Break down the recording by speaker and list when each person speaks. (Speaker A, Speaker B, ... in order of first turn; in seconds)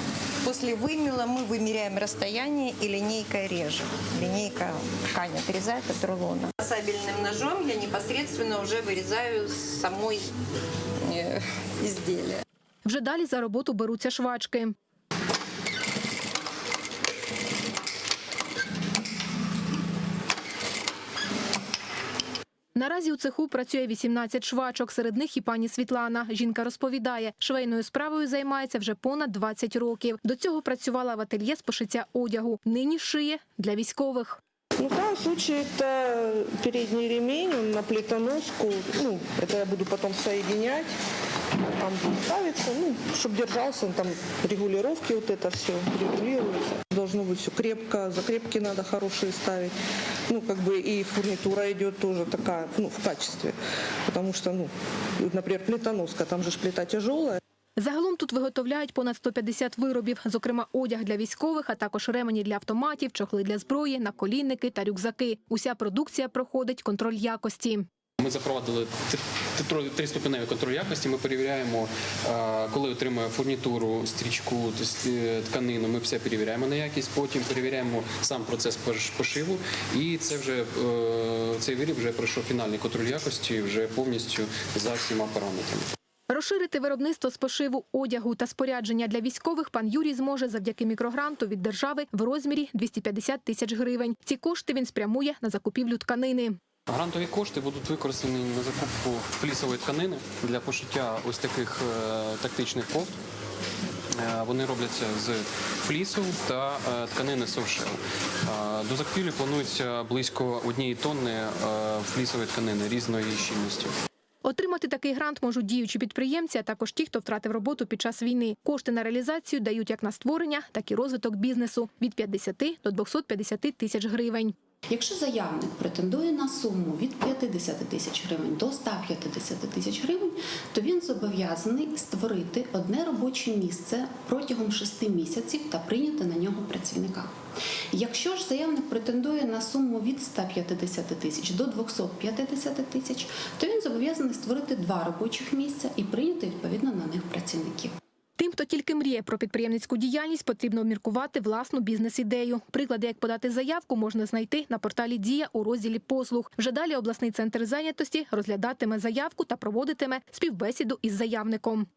Speaker A: 0.4-10.3, 11.0-12.4
Speaker B: 12.8-14.7, 22.7-34.4, 57.8-67.9, 86.3-96.6, 114.4-124.5, 148.4-161.9
Speaker C: 34.8-40.9, 41.8-49.7, 50.3-57.4
Speaker D: 68.2-85.9, 96.9-103.1, 104.1-113.9
Speaker E: 124.9-137.4, 137.9-147.9